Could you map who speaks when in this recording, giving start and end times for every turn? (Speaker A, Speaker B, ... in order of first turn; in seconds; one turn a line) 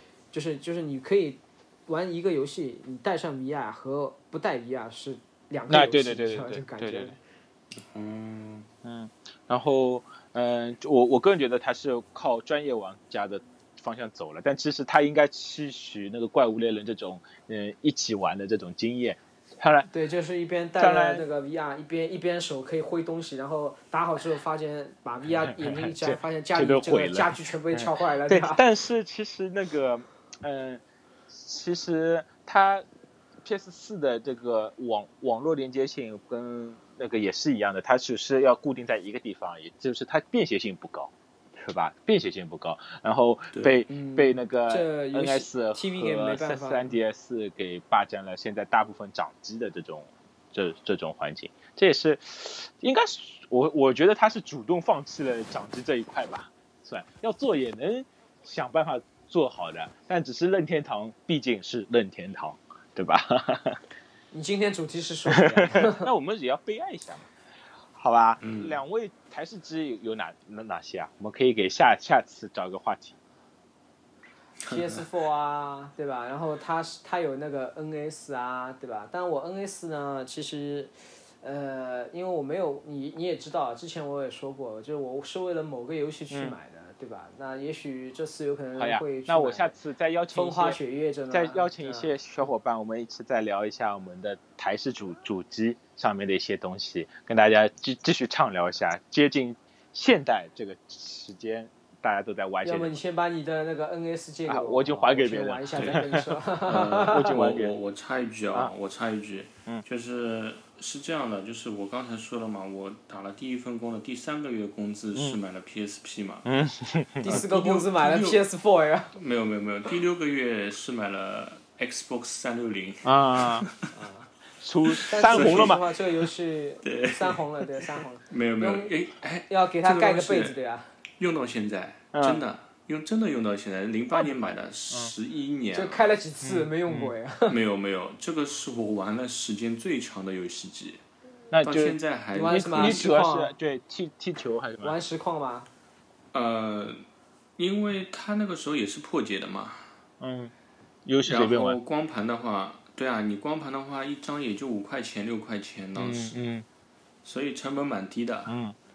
Speaker A: 0.3-7.2
Speaker B: 5.7-7.1
Speaker C: 7.8-8.7
Speaker B: 8.8-19.9
Speaker A: 19.9-28.6
Speaker B: 20.8-21.2
Speaker B: 25.6-32.8
Speaker B: 33.4-63.8
Speaker C: 43.5-43.8
Speaker A: 43.9-46.9
Speaker A: 64.3-66.1
Speaker B: 65.3-67.3
Speaker B: 67.9-73.2
Speaker C: 68.4-68.8
Speaker C: 74.6-75.0
Speaker A: 74.7-89.7
Speaker B: 86.3-86.5
Speaker B: 88.8-90.8
Speaker A: 90.3-92.1
Speaker B: 91.3-103.0
Speaker A: 102.6-107.4
Speaker B: 104.5-107.8
Speaker C: 106.7-116.5
Speaker B: 116.5-117.4
Speaker A: 117.2-119.2
Speaker C: 117.2-118.4
Speaker C: 119.1-123.9
Speaker B: 123.0-123.7
Speaker A: 123.9-124.3
Speaker B: 124.6-125.8
Speaker C: 124.9-125.8
Speaker A: 125.1-128.9
Speaker C: 126.8-130.6
Speaker A: 129.5-130.9
Speaker C: 131.2-136.0
Speaker B: 132.1-132.4
Speaker A: 135.7-137.6
Speaker B: 136.4-137.1
Speaker C: 137.5-141.0
Speaker B: 141.5-145.0
Speaker C: 141.6-143.1
Speaker A: 142.3-143.5
Speaker A: 144.8-145.7
Speaker C: 146.3-147.0
Speaker C: 147.6-149.9
Speaker B: 150.2-150.5
Speaker B: 151.1-151.8
Speaker C: 151.2-156.4
Speaker B: 156.0-156.6
Speaker C: 157.2-158.5
Speaker B: 158.5-158.7